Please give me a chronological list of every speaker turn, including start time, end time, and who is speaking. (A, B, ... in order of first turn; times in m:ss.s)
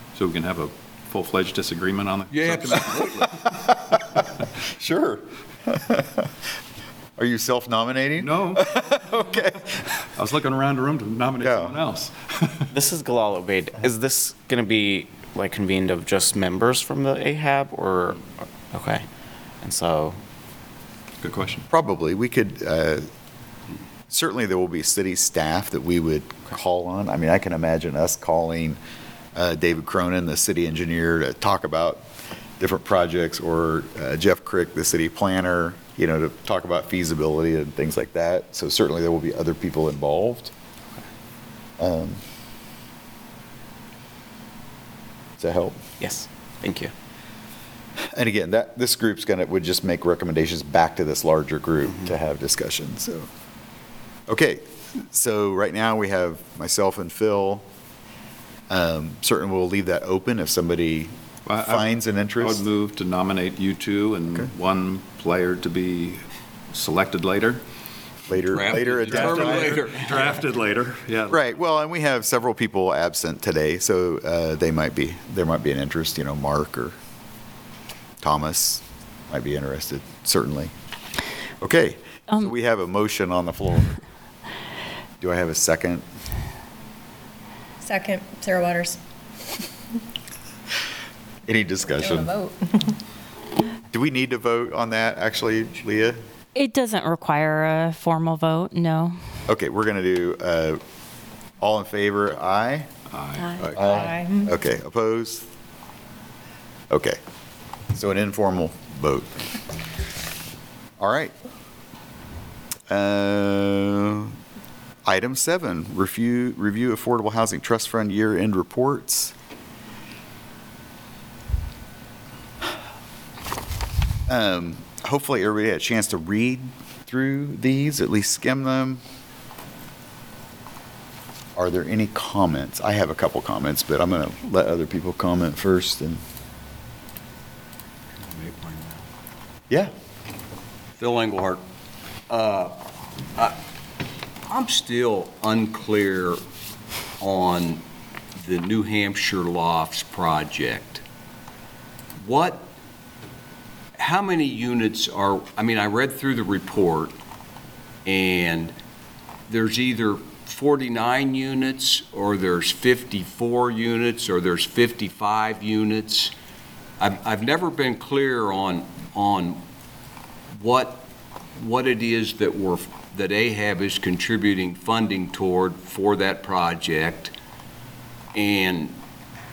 0:00.1-0:03.3 A
0:02.3-0:03.3 B
0:03.4-0:04.2 C
0:04.8-0:06.3 C
0:07.2-0:10.1 C
0:08.2-0:09.0 A
0:10.2-0:12.7 A
0:11.4-0:11.8 C
0:12.7-0:19.0 D
0:19.6-0:20.2 D
0:21.2-0:21.6 A
0:21.7-0:23.1 C
0:24.1-0:28.8 C
0:29.3-0:32.0 C
0:32.6-0:40.5 C
0:41.8-0:42.2 C
0:45.4-0:45.8 C
0:46.0-0:46.9 D
0:48.1-0:53.3 C
0:51.9-0:52.1 D
0:54.3-0:57.6 C
0:58.7-1:02.6 C
1:01.5-1:07.6 A
1:08.3-1:10.0 C
1:08.5-1:10.4 B
1:09.1-1:11.4 A
1:11.3-1:17.0 C
1:18.2-1:20.7 C
1:21.6-1:24.0 C
1:25.2-1:26.0 C
1:27.8-1:29.0 E
1:31.5-1:32.3 C
1:32.0-1:32.9 E
1:33.9-1:36.2 C
1:36.5-1:39.2 F
1:39.5-1:40.8 C
1:41.6-1:42.9 C
1:43.1-1:43.6 A
1:43.6-1:45.5 C
1:43.9-1:44.5 E
1:46.9-1:47.2 C
1:47.9-1:49.5 C
1:51.0-1:51.4 C
1:52.9-1:54.4 C
1:55.0-1:59.3 C
2:04.3-2:09.0 C
2:11.6-2:16.2 C
2:18.2-2:19.0 B
2:21.0-2:21.6 B
2:22.3-2:22.8 B
2:24.5-2:26.4 B
2:27.2-2:27.8 B
2:28.4-2:31.0 B
2:32.2-2:32.7 B
2:34.0-2:37.1 B
2:38.0-2:38.7 B
2:39.5-2:46.3 B
2:47.0-2:49.6 B
2:50.6-2:51.0 B
2:51.6-2:57.3 B
2:58.3-2:59.0 B